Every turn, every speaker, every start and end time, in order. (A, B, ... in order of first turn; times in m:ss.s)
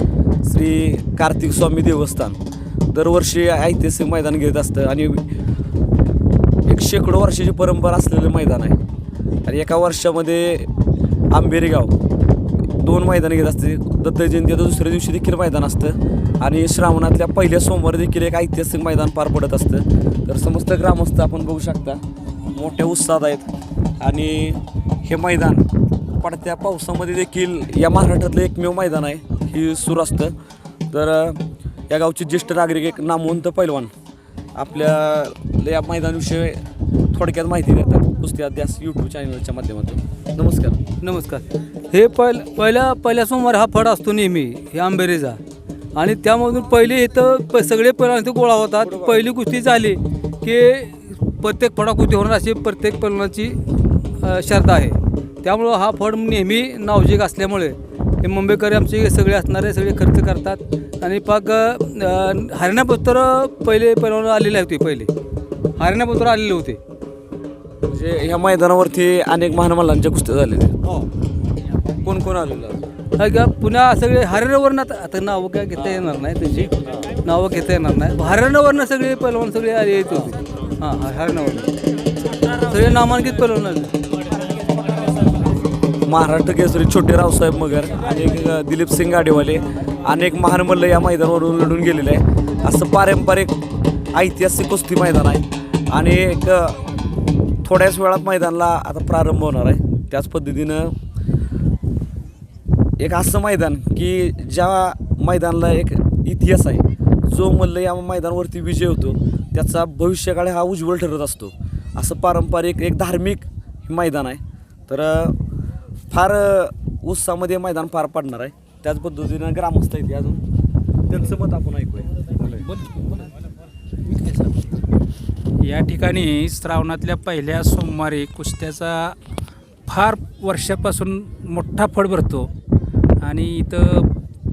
0:00.4-0:02.4 A
0:02.9-0:05.2 A
0:06.7-0:08.8 A
0:09.4-0:10.7 A
0:11.3-0:11.9 A
0:12.8-0:22.0 A
0:22.5-0:23.5 A
0:24.0-0:25.6 A
0:26.2-0:30.3 A
0:30.9-0:33.9 A
0:34.5-0:36.6 A
0:37.1-0:40.8 A
0:41.0-0:45.4 B
0:45.9-0:53.6 B
0:48.8-0:49.2 A
0:54.2-1:05.1 B
1:05.8-1:06.8 B
1:07.9-1:10.8 A
1:12.0-1:12.8 A
1:13.2-1:21.7 B
1:15.8-1:16.0 A
1:22.6-1:23.9 B
1:26.0-1:33.6 A
1:34.1-1:36.8 A
1:37.6-1:40.9 A
1:43.0-1:55.4 A
1:56.1-2:00.4 A
2:01.1-2:02.1 A
2:02.5-2:03.1 C
2:04.1-2:04.5 C
2:05.6-2:09.2 C
2:09.9-2:12.5 C
2:13.2-2:14.1 C